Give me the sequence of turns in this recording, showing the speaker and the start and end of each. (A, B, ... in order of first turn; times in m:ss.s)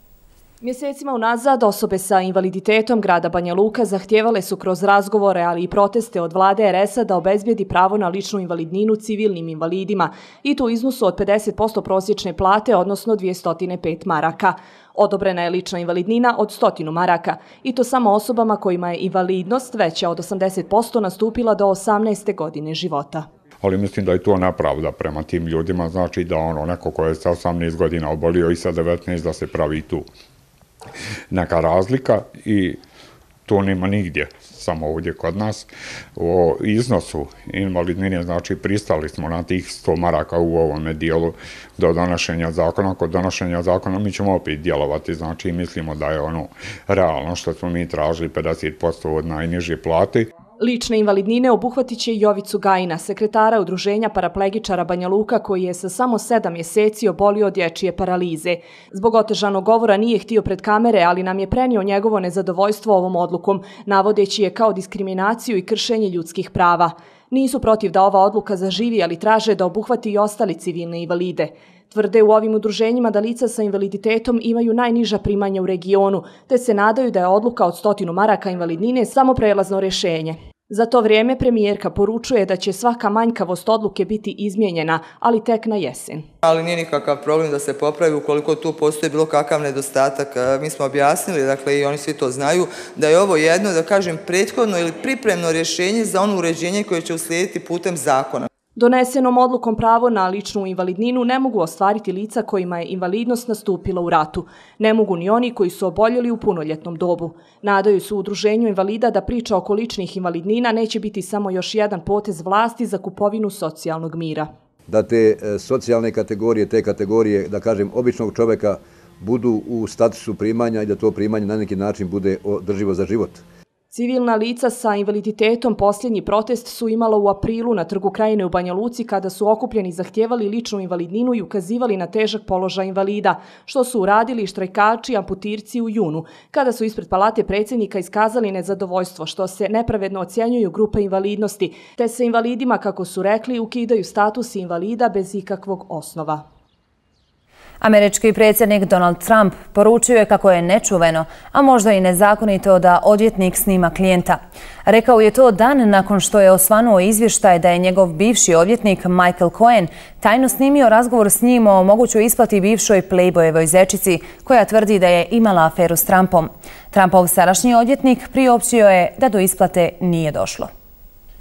0:00.6-0:23.3 A
0:23.6-0:30.1 B
0:31.3-0:32.8 B
0:33.5-0:50.3 B
0:50.6-1:26.2 A
1:26.4-1:38.5 C
1:38.8-1:54.5 A
1:54.9-2:03.4 D
2:03.9-2:26.4 A
2:27.8-2:50.7 E